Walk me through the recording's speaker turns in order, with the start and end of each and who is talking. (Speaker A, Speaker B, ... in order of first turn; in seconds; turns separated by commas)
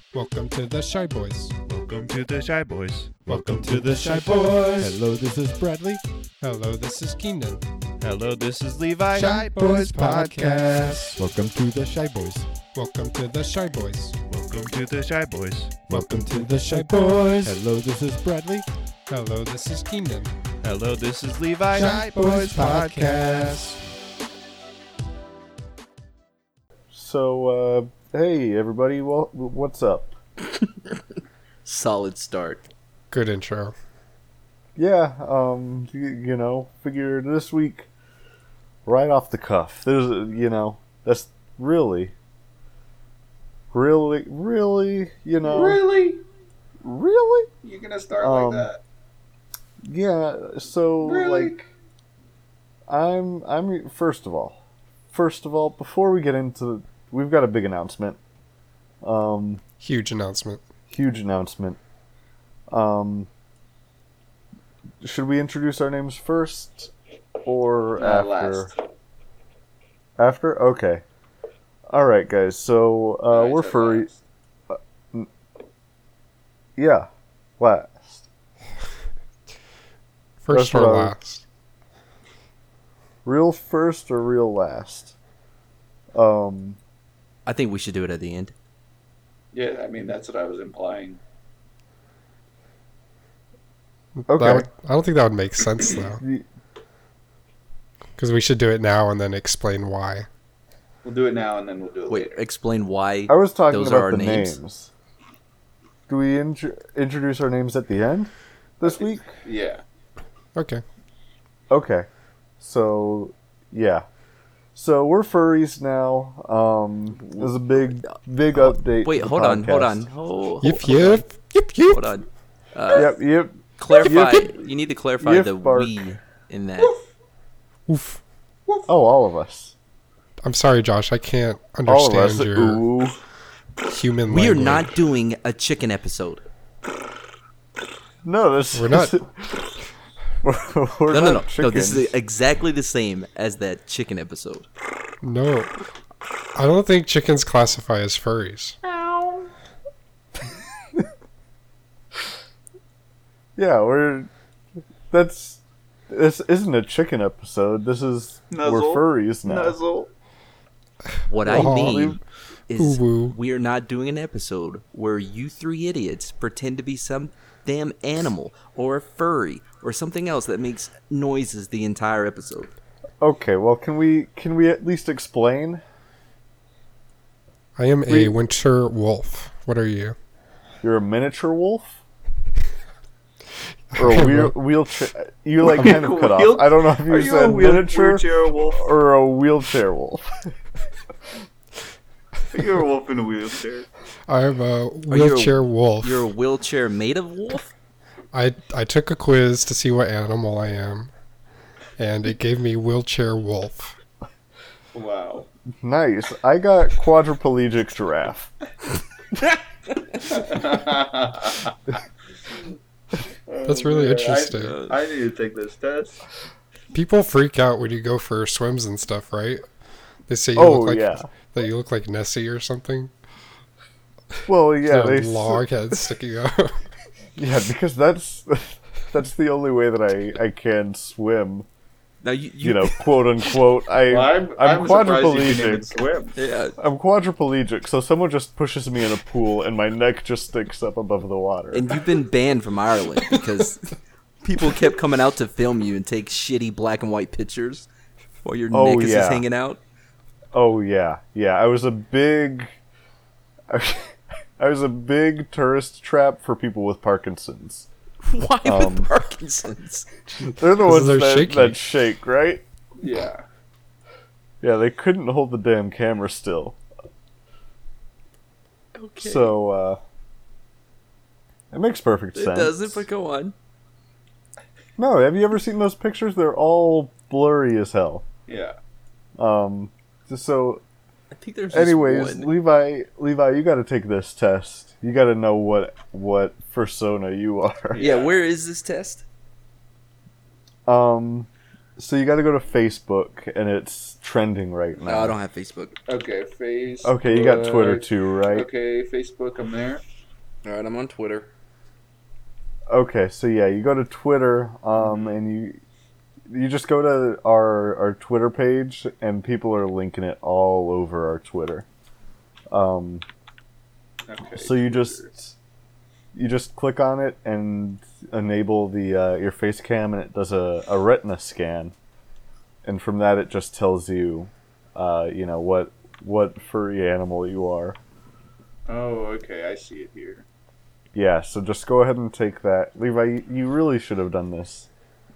Speaker A: 0.1-1.6, Speaker B: 1.7-5.0, Speaker C: 3.3-6.0, Speaker A: 3.4-4.7, Speaker A: 6.4-7.6, Speaker B: 8.0-11.2, Speaker A: 9.2-10.8, Speaker C: 9.2-12.5, Speaker A: 12.7-14.2, Speaker B: 14.3-17.6, Speaker C: 15.9-18.7, Speaker A: 16.8-17.1, Speaker A: 19.1-20.3, Speaker B: 20.6-23.8, Speaker C: 21.7-23.7, Speaker D: 26.9-30.1, Speaker E: 30.6-31.0, Speaker E: 31.6-32.6, Speaker A: 33.1-33.7, Speaker D: 34.8-37.9, Speaker D: 38.9-42.1, Speaker D: 43.7-45.8, Speaker F: 45.4-46.2, Speaker D: 46.8-47.5, Speaker F: 47.6-48.8, Speaker D: 48.2-48.7, Speaker D: 49.8-51.7, Speaker F: 51.0-51.6, Speaker D: 52.9-54.6, Speaker D: 55.1-58.2, Speaker D: 59.0-59.6, Speaker A: 59.8-60.6, Speaker D: 60.9-61.8, Speaker D: 62.7-63.3, Speaker D: 65.0-66.9, Speaker D: 67.5-68.7, Speaker F: 68.0-68.8, Speaker D: 70.2-71.0, Speaker D: 71.9-74.1, Speaker F: 73.3-74.2, Speaker D: 74.7-75.3, Speaker D: 76.8-77.1, Speaker D: 77.6-78.3, Speaker A: 80.4-81.5, Speaker D: 80.5-81.1, Speaker D: 83.2-85.2, Speaker D: 86.1-86.8, Speaker E: 87.5-88.5, Speaker F: 89.5-91.2, Speaker A: 94.2-96.2, Speaker D: 94.3-94.7, Speaker D: 96.2-96.5, Speaker A: 98.2-100.3, Speaker F: 101.0-102.4, Speaker E: 102.1-104.6, Speaker D: 103.3-104.9, Speaker D: 106.1-109.3, Speaker F: 108.8-109.8, Speaker A: 110.5-110.8, Speaker D: 111.7-112.1, Speaker D: 112.6-114.0, Speaker D: 114.8-120.1, Speaker E: 117.4-121.3, Speaker A: 120.6-122.1, Speaker E: 121.9-123.1, Speaker D: 122.9-124.5, Speaker E: 123.8-126.9, Speaker D: 125.2-126.0, Speaker A: 127.9-128.2, Speaker D: 128.9-129.8, Speaker A: 130.4-132.8, Speaker D: 131.9-133.2, Speaker A: 133.8-135.0, Speaker E: 134.3-136.4, Speaker D: 138.2-139.7, Speaker A: 138.7-139.2, Speaker D: 140.4-142.2, Speaker E: 141.1-144.7, Speaker A: 145.2-145.8, Speaker A: 146.5-148.8, Speaker F: 148.8-149.5, Speaker D: 153.6-154.3, Speaker D: 155.1-159.8, Speaker F: 158.5-160.1, Speaker E: 161.3-172.7, Speaker A: 161.5-162.1, Speaker D: 161.5-162.2, Speaker A: 162.8-163.4, Speaker D: 173.2-175.8, Speaker A: 177.8-180.2, Speaker D: 178.1-178.3, Speaker D: 180.8-181.9, Speaker A: 183.9-184.5, Speaker D: 183.9-190.5, Speaker F: 185.6-188.9, Speaker F: 192.5-193.9, Speaker A: 194.3-196.3, Speaker E: 195.1-197.7, Speaker A: 198.3-201.1, Speaker A: 202.0-203.9, Speaker F: 204.9-205.5, Speaker D: 205.8-208.5, Speaker F: 210.2-211.8, Speaker F: 213.5-216.2, Speaker A: 213.7-214.8, Speaker E: 214.6-214.9, Speaker A: 216.9-219.6, Speaker A: 220.3-223.1, Speaker D: 220.6-221.3, Speaker D: 224.5-225.6, Speaker A: 224.9-226.8, Speaker D: 227.4-231.7, Speaker E: 232.2-233.2, Speaker D: 232.6-236.0, Speaker F: 234.1-236.4, Speaker E: 236.4-236.8, Speaker D: 236.8-242.0, Speaker E: 241.7-243.9, Speaker E: 244.4-247.9, Speaker E: 248.4-249.8, Speaker D: 248.7-249.5, Speaker D: 250.5-252.8, Speaker D: 253.7-257.9, Speaker E: 258.2-260.1, Speaker D: 258.6-259.1, Speaker D: 260.4-262.6, Speaker A: 260.8-261.8, Speaker F: 263.0-263.4, Speaker D: 264.6-266.8, Speaker E: 268.9-269.6, Speaker D: 269.2-270.0, Speaker D: 271.7-273.1, Speaker E: 272.4-273.5, Speaker D: 275.0-278.2, Speaker F: 278.5-278.8, Speaker D: 279.4-280.8, Speaker E: 281.3-282.5, Speaker D: 281.7-288.1, Speaker F: 287.9-288.4, Speaker E: 287.9-289.2, Speaker D: 290.9-295.4, Speaker E: 295.0-296.0, Speaker F: 296.1-300.0, Speaker D: 297.0-298.7, Speaker E: 300.6-301.5, Speaker D: 302.9-305.8, Speaker F: 305.0-305.4, Speaker D: 306.5-311.9, Speaker D: 312.7-313.2, Speaker F: 314.3-315.3, Speaker D: 314.5-315.6, Speaker D: 316.3-321.9, Speaker D: 322.8-328.0, Speaker F: 328.9-330.4, Speaker D: 331.1-334.9